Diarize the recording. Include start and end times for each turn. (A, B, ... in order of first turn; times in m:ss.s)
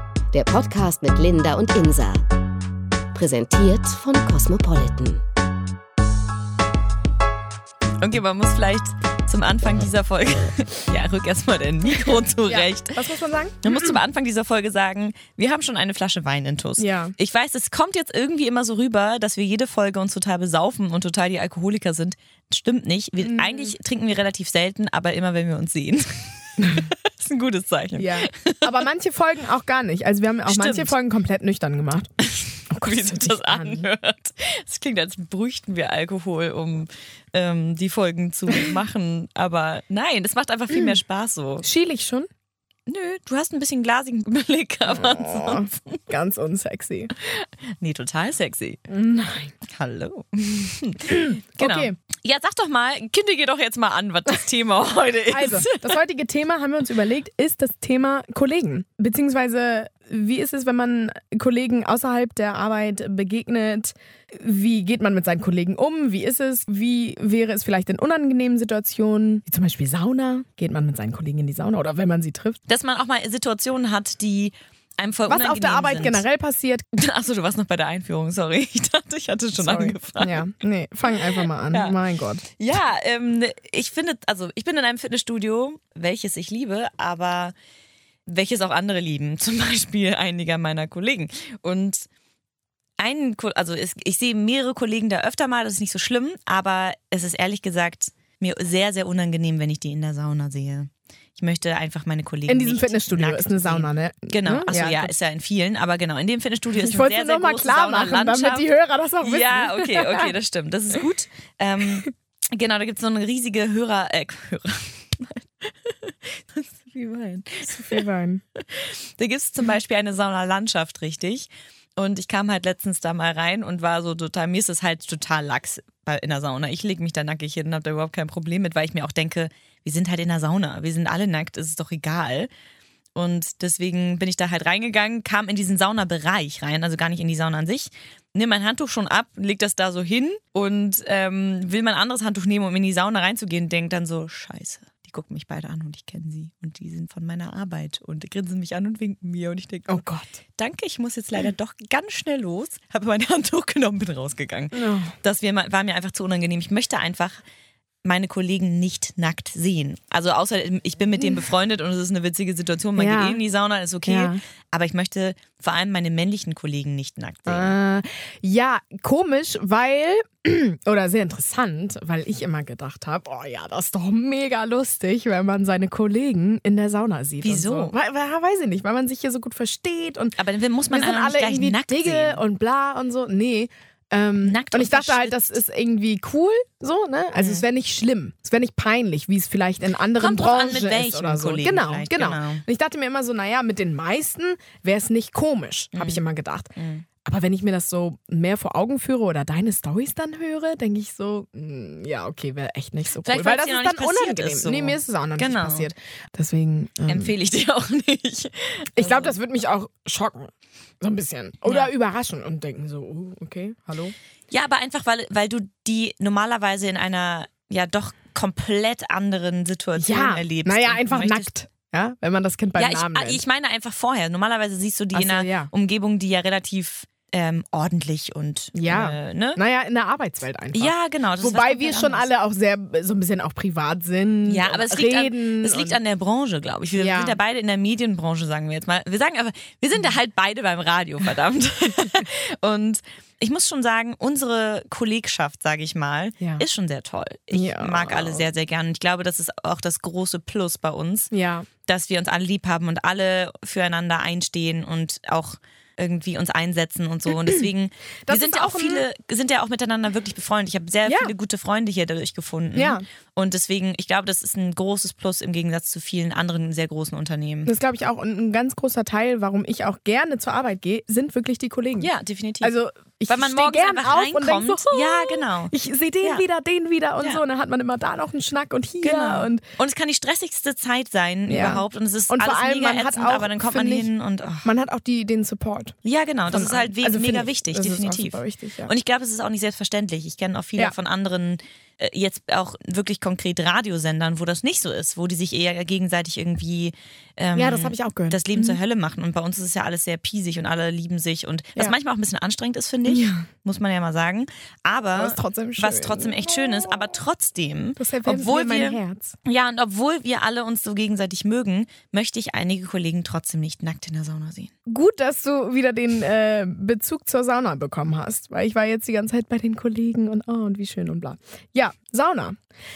0:00.3-0:02.2 A
0:03.1-0:05.2 A
0:08.0-0:13.0 B
0:12.4-0:14.0 C
0:13.6-0:28.7 B
0:16.8-0:17.2 C
0:23.2-0:23.7 C
0:26.6-0:26.9 C
0:28.0-0:32.1 C
0:30.5-0:31.0 B
0:32.2-0:41.7 B
0:32.7-0:33.9 C
0:40.7-0:41.0 C
0:41.6-0:42.3 C
0:42.9-0:46.0 B
0:44.9-0:47.1 C
0:47.2-0:48.8 B
0:48.9-0:49.5 C
0:49.6-0:56.0 B
0:51.1-0:52.0 C
0:55.3-1:12.6 C
1:12.7-1:16.2 B
1:15.3-1:16.9 C
1:16.9-1:20.5 B
1:19.6-1:22.4 C
1:21.1-1:22.0 B
1:22.5-1:27.6 B
1:28.3-1:32.1 B
1:33.0-1:48.7 B
1:42.5-1:45.1 C
1:46.8-1:50.3 C
1:49.2-1:58.0 B
1:57.7-1:58.4 C
1:58.6-2:12.5 B
2:13.2-2:30.0 B
2:29.9-2:30.4 C
2:30.6-2:37.4 B
2:34.7-2:35.1 C
2:38.0-2:47.8 B
2:41.2-2:41.5 C
2:43.0-2:43.4 C
2:44.1-2:44.4 C
2:47.5-3:00.4 C
2:57.4-2:58.0 B
3:00.4-3:02.4 B
3:00.9-3:16.7 C
3:04.4-3:05.6 B
3:07.4-3:07.6 B
3:10.2-3:12.6 B
3:15.9-3:16.2 B
3:16.8-3:17.1 B
3:17.2-3:27.3 C
3:23.2-3:25.9 B
3:27.1-3:29.4 B
3:29.0-3:34.1 C
3:31.7-3:31.9 B
3:34.5-3:41.5 B
3:40.0-3:43.4 C
3:42.8-3:49.6 B
3:45.1-3:45.7 C
3:48.8-3:56.0 C
3:50.7-3:52.3 B
3:54.5-4:11.3 B
3:57.0-3:57.4 C
4:06.4-4:06.6 C
4:07.5-4:08.5 C
4:11.3-4:11.7 C
4:11.9-4:27.7 B
4:17.3-4:17.7 C
4:18.3-4:19.0 C
4:21.1-4:21.3 C
4:22.8-4:23.0 C
4:27.7-4:32.1 C
4:32.0-4:32.8 B
4:32.6-4:39.6 C
4:33.3-4:36.4 B
4:39.0-4:44.7 B
4:41.5-4:44.1 C
4:44.6-4:46.0 C
4:46.0-5:14.7 B
4:46.5-4:48.9 C
4:57.6-4:58.8 C
5:03.1-5:03.5 C
5:05.2-5:06.9 C
5:08.0-5:09.4 C
5:14.9-5:22.6 C